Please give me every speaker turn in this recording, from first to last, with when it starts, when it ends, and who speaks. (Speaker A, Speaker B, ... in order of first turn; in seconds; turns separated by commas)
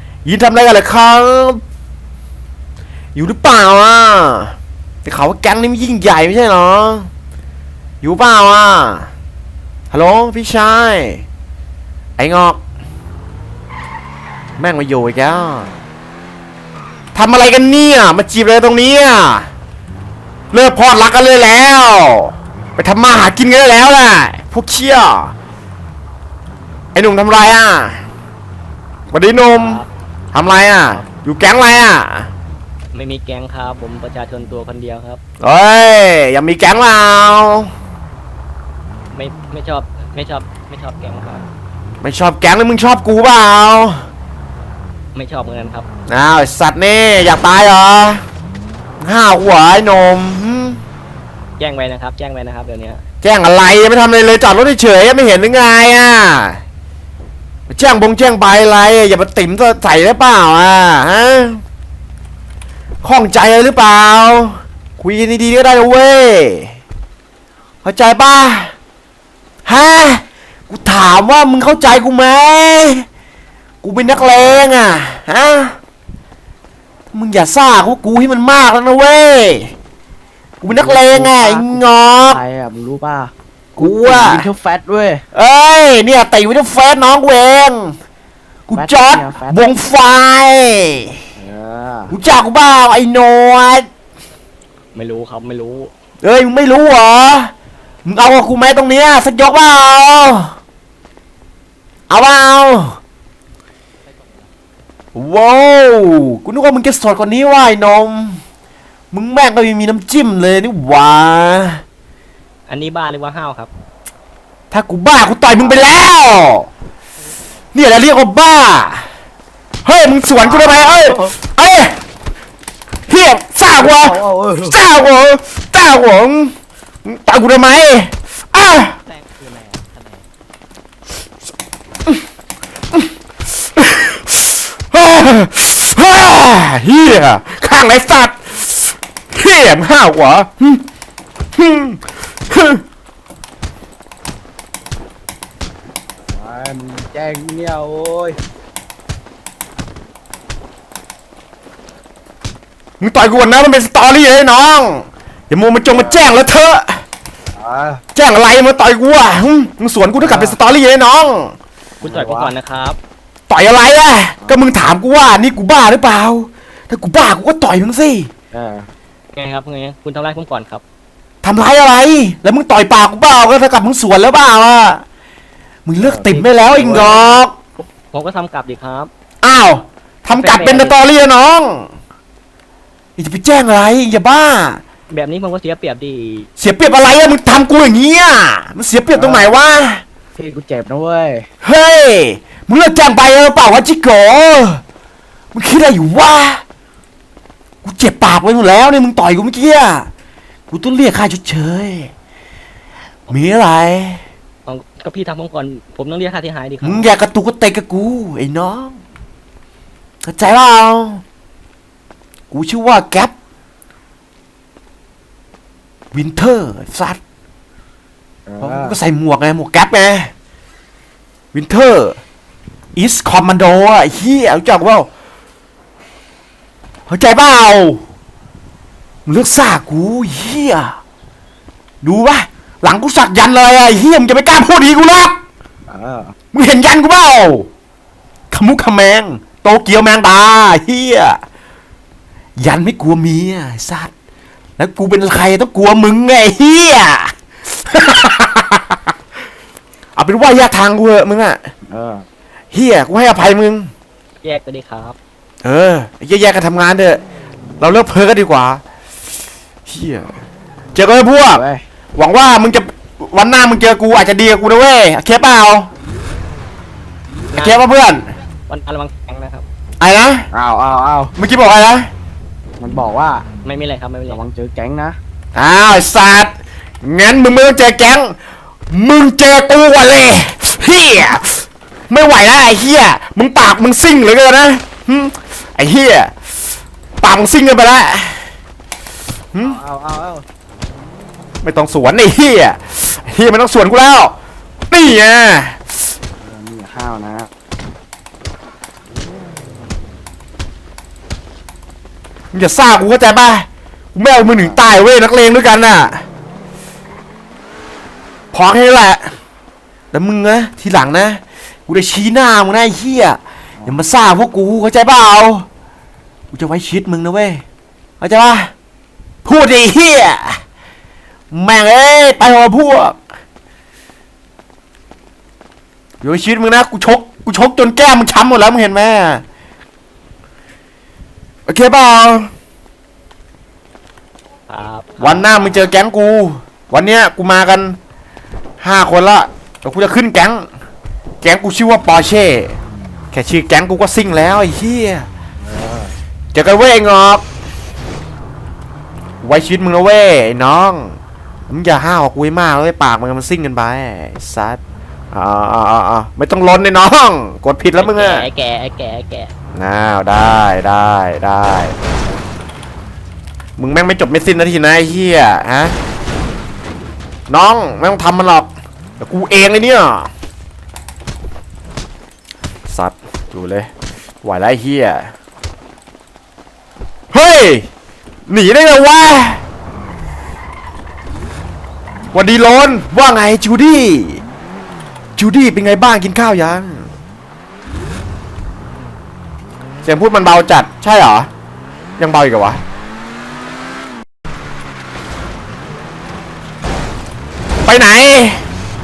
Speaker A: 0.2-1.6, Speaker A: 3.1-7.1, Speaker A: 8.0-9.1, Speaker A: 9.9-11.2, Speaker A: 12.2-12.6, Speaker A: 14.6-15.7, Speaker A: 17.1-19.5, Speaker A: 20.5-25.3, Speaker A: 26.9-28.0, Speaker A: 29.1-29.8, Speaker B: 29.5-29.9, Speaker A: 30.3-32.3, Speaker B: 32.9-35.2, Speaker A: 35.4-37.7, Speaker B: 39.1-41.5, Speaker A: 42.0-44.1, Speaker B: 45.1-45.9, Speaker A: 46.1-48.2, Speaker A: 49.0-50.8, Speaker B: 51.6-53.0, Speaker A: 53.2-56.6, Speaker A: 57.7-61.6, Speaker A: 63.0-66.8, Speaker A: 67.8-68.7, Speaker A: 69.6-73.0, Speaker A: 73.8-75.8, Speaker A: 77.1-79.7, Speaker A: 80.6-82.4, Speaker C: 80.7-85.2, Speaker A: 83.8-84.5, Speaker A: 85.3-87.9, Speaker A: 88.7-91.2, Speaker C: 88.7-89.7, Speaker C: 91.4-92.1, Speaker A: 92.1-93.9, Speaker B: 94.9-95.9, Speaker A: 96.2-97.5, Speaker A: 98.0-100.5, Speaker A: 102.1-103.0, Speaker A: 105.1-108.4, Speaker A: 109.1-111.8, Speaker B: 112.7-113.7, Speaker A: 114.7-116.7, Speaker A: 117.7-119.0, Speaker A: 119.8-122.0, Speaker C: 120.4-121.3, Speaker A: 123.1-126.5, Speaker C: 123.8-124.8, Speaker A: 127.0-129.0, Speaker A: 133.8-140.8, Speaker A: 141.5-142.8, Speaker C: 146.3-148.4, Speaker A: 153.0-157.0, Speaker C: 155.9-156.2, Speaker C: 157.6-158.0, Speaker A: 158.1-161.6, Speaker C: 160.2-160.6, Speaker C: 162.0-162.5, Speaker B: 162.0-163.0, Speaker A: 163.5-168.3, Speaker C: 168.5-168.9, Speaker B: 169.3-170.8, Speaker A: 171.4-175.0, Speaker A: 175.8-177.6, Speaker C: 176.0-177.2, Speaker B: 176.3-177.1, Speaker B: 178.1-179.1, Speaker A: 179.4-181.9, Speaker B: 180.3-181.0, Speaker A: 183.2-184.8, Speaker B: 185.1-186.5, Speaker A: 186.6-190.0, Speaker C: 189.1-189.5, Speaker C: 190.3-191.4, Speaker A: 191.6-194.8, Speaker A: 195.5-196.6, Speaker A: 197.8-200.1, Speaker A: 200.7-202.1, Speaker A: 203.3-204.2, Speaker B: 204.7-207.1, Speaker A: 206.8-209.0, Speaker A: 210.2-211.2, Speaker A: 212.5-213.3, Speaker A: 216.1-217.2, Speaker C: 218.4-218.9, Speaker A: 218.6-220.3, Speaker A: 221.5-222.2, Speaker A: 222.9-225.1, Speaker A: 227.1-228.0, Speaker A: 229.2-231.0, Speaker A: 232.0-235.4, Speaker C: 235.9-236.3, Speaker A: 236.5-237.7, Speaker A: 238.5-241.4, Speaker A: 242.6-244.1, Speaker A: 244.8-248.9, Speaker A: 250.2-251.7, Speaker C: 251.9-252.2, Speaker A: 252.7-253.9, Speaker B: 254.4-255.2, Speaker A: 255.6-257.2, Speaker A: 257.8-258.8, Speaker A: 259.9-260.4, Speaker A: 260.9-261.6, Speaker C: 261.5-261.8, Speaker A: 262.1-265.9, Speaker B: 267.5-267.8, Speaker A: 267.6-268.3, Speaker B: 268.7-269.6, Speaker A: 270.0-270.5, Speaker C: 270.5-271.3, Speaker A: 271.4-272.1, Speaker C: 272.8-273.4, Speaker B: 273.6-274.4, Speaker C: 274.3-275.2, Speaker A: 275.6-278.4, Speaker A: 278.9-286.3, Speaker A: 287.2-288.5, Speaker A: 289.5-289.8, Speaker C: 289.6-290.4, Speaker A: 291.6-294.4, Speaker A: 294.9-295.9, Speaker C: 296.4-297.5, Speaker A: 302.5-306.2, Speaker C: 304.5-304.8, Speaker A: 308.5-309.4, Speaker A: 310.1-315.7, Speaker A: 316.5-317.6, Speaker A: 318.2-318.7, Speaker A: 319.4-320.6, Speaker A: 321.5-323.2, Speaker A: 326.2-329.4, Speaker A: 331.7-332.5, Speaker B: 334.7-335.7, Speaker A: 335.2-338.0, Speaker A: 338.8-340.7, Speaker A: 341.4-342.8, Speaker A: 343.3-345.3, Speaker C: 345.6-346.1, Speaker A: 346.5-347.4, Speaker A: 349.4-354.8, Speaker A: 355.3-358.5, Speaker B: 358.0-359.5, Speaker A: 359.8-361.9, Speaker A: 363.8-366.0, Speaker A: 367.5-370.3, Speaker A: 372.9-373.9, Speaker A: 374.4-375.3, Speaker A: 377.3-377.9, Speaker A: 378.5-379.6, Speaker A: 382.3-384.4, Speaker A: 385.4-387.1, Speaker A: 390.0-391.5, Speaker A: 392.2-392.8, Speaker A: 397.9-398.6